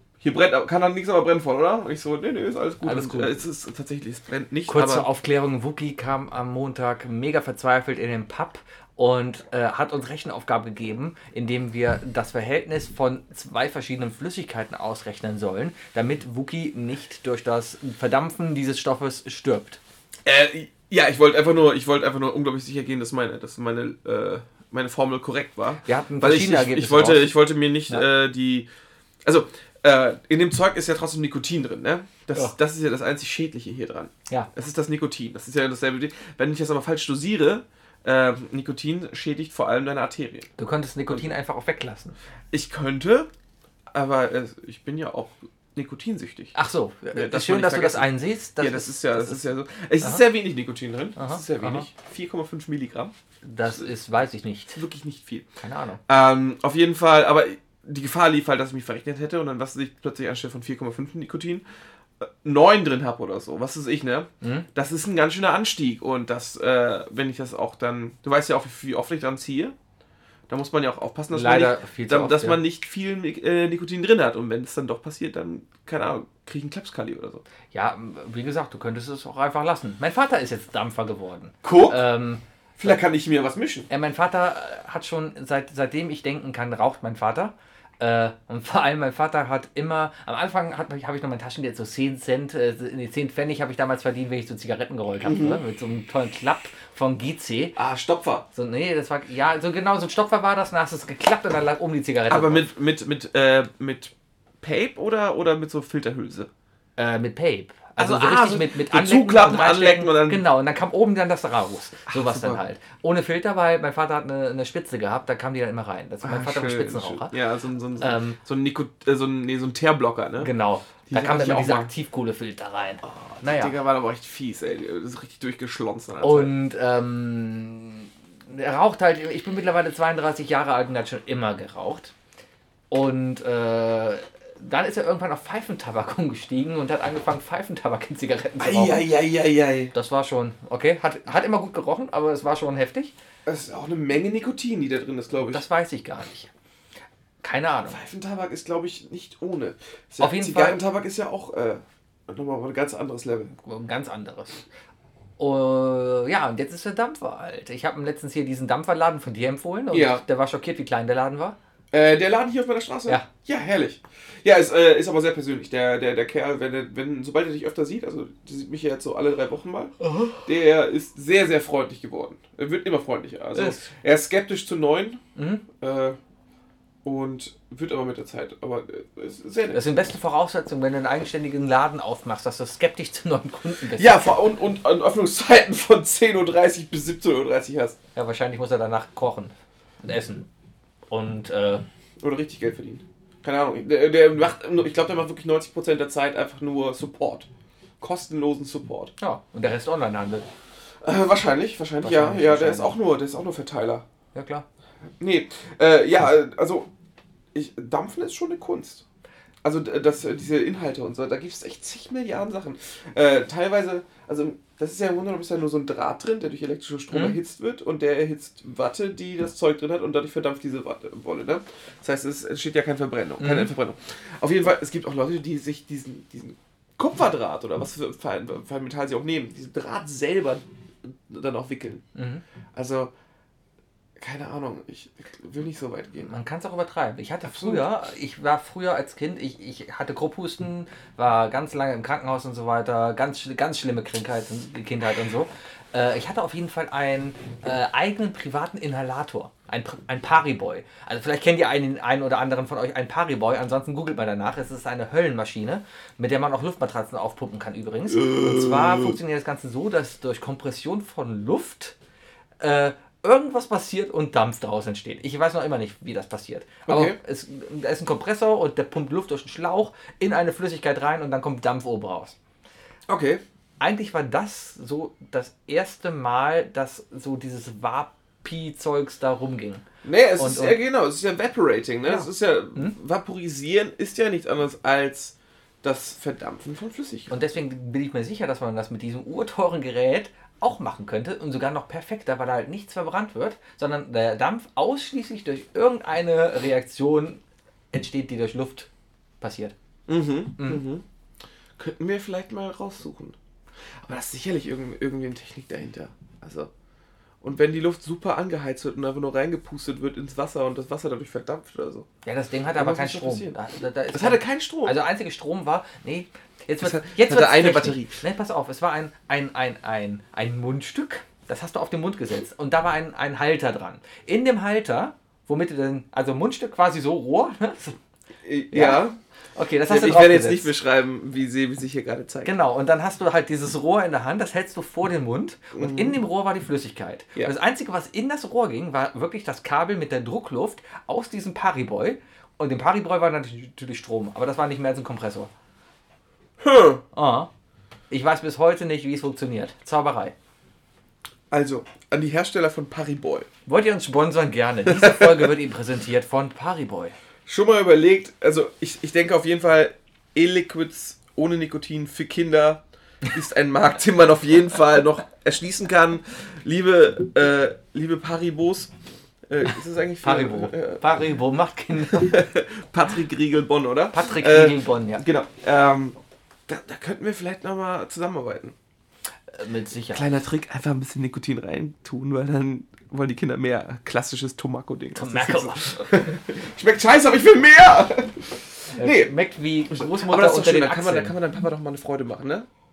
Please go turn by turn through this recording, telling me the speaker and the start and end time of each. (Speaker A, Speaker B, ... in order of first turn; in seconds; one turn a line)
Speaker A: 0.2-5.1
Speaker B: 2.8-3.4
Speaker B: 4.7-19.8
Speaker A: 20.2-28.7
Speaker B: 25.8-27.3
Speaker A: 29.2-40.5
Speaker B: 40.6-42.1
Speaker A: 42.5-43.3
Speaker A: 43.9-46.5
Speaker B: 46.5-49.4
Speaker A: 47.1-53.1
Speaker B: 51.1-51.9
Speaker B: 53.4-54.8
Speaker A: 54.7-55.5
Speaker B: 55.6-56.0
Speaker A: 56.1-61.6
Speaker A: 62.2-69.7
Speaker B: 64.4-64.7
Speaker A: 70.5-77.4
Speaker B: 71.3-72.6
Speaker B: 77.7-82.4
Speaker A: 81.6-82.0
Speaker A: 82.8-83.9
Speaker B: 83.9-97.8
Speaker A: 95.2-95.6
Speaker A: 97.8-98.5
Speaker B: 98.5-102.7
Speaker A: 102.3-106.5
Speaker B: 107.0-117.3
Speaker A: 108.0-110.4
Speaker A: 112.1-112.6
Speaker A: 116.2-120.5
Speaker B: 118.0-118.4
Speaker B: 120.4-123.7
Speaker A: 121.1-121.9
Speaker A: 123.3-126.5
Speaker B: 126.2-132.1
Speaker B: 132.9-139.1
Speaker A: 138.6-139.9
Speaker B: 139.9-143.1
Speaker A: 143.4-145.6
Speaker B: 145.5-146.5
Speaker B: 147.4-148.0
Speaker A: 147.9-153.5
Speaker B: 150.2-150.8
Speaker B: 153.6-154.6
Speaker B: 155.4-161.6
Speaker A: 159.9-160.2
Speaker A: 161.9-175.2
Speaker B: 170.0-170.4
Speaker B: 173.5-173.9
Speaker B: 175.3-175.6
Speaker A: 175.7-176.2
Speaker A: 177.0-179.8
Speaker B: 179.7-184.4
Speaker A: 183.9-188.0
Speaker B: 188.1-190.5
Speaker B: 191.1-191.8
Speaker A: 192.2-197.5
Speaker A: 198.0-199.1
Speaker B: 199.2-200.4
Speaker A: 201.0-204.0
Speaker B: 202.0-202.9
Speaker B: 204.3-204.6
Speaker A: 205.2-206.9
Speaker A: 207.5-209.0
Speaker A: 209.6-232.0
Speaker B: 217.1-217.4
Speaker B: 223.4-223.7
Speaker B: 232.1-232.4
Speaker A: 232.7-233.1
Speaker A: 234.2-236.3
Speaker B: 236.2-261.9
Speaker A: 237.4-237.9
Speaker A: 258.1-259.2
Speaker B: 262.6-272.4
Speaker A: 266.9-267.2
Speaker A: 273.1-273.4
Speaker B: 273.8-279.8
Speaker A: 280.0-287.3
Speaker B: 280.4-280.8
Speaker B: 282.1-282.9
Speaker B: 287.3-298.9
Speaker B: 299.4-299.7
Speaker A: 300.1-301.0
Speaker A: 301.8-303.4
Speaker A: 304.0-306.7
Speaker A: 307.4-312.1
Speaker B: 312.2-328.0
Speaker A: 312.8-313.6
Speaker A: 314.1-315.0
Speaker A: 316.8-318.2
Speaker A: 328.4-329.2
Speaker B: 328.7-330.7
Speaker A: 329.9-332.5
Speaker B: 332.4-345.5
Speaker A: 335.8-336.1
Speaker A: 346.6-347.0
Speaker B: 347.1-347.5
Speaker B: 348.1-350.3
Speaker A: 351.5-353.5
Speaker B: 353.7-357.1
Speaker A: 354.9-355.5
Speaker A: 357.5-368.9
Speaker A: 369.5-371.1
Speaker B: 370.2-372.4
Speaker A: 371.9-378.7
Speaker B: 374.1-375.2
Speaker B: 379.5-380.3
Speaker A: 380.1-389.3
Speaker B: 385.1-386.1
Speaker B: 388.9-391.3
Speaker A: 389.9-392.7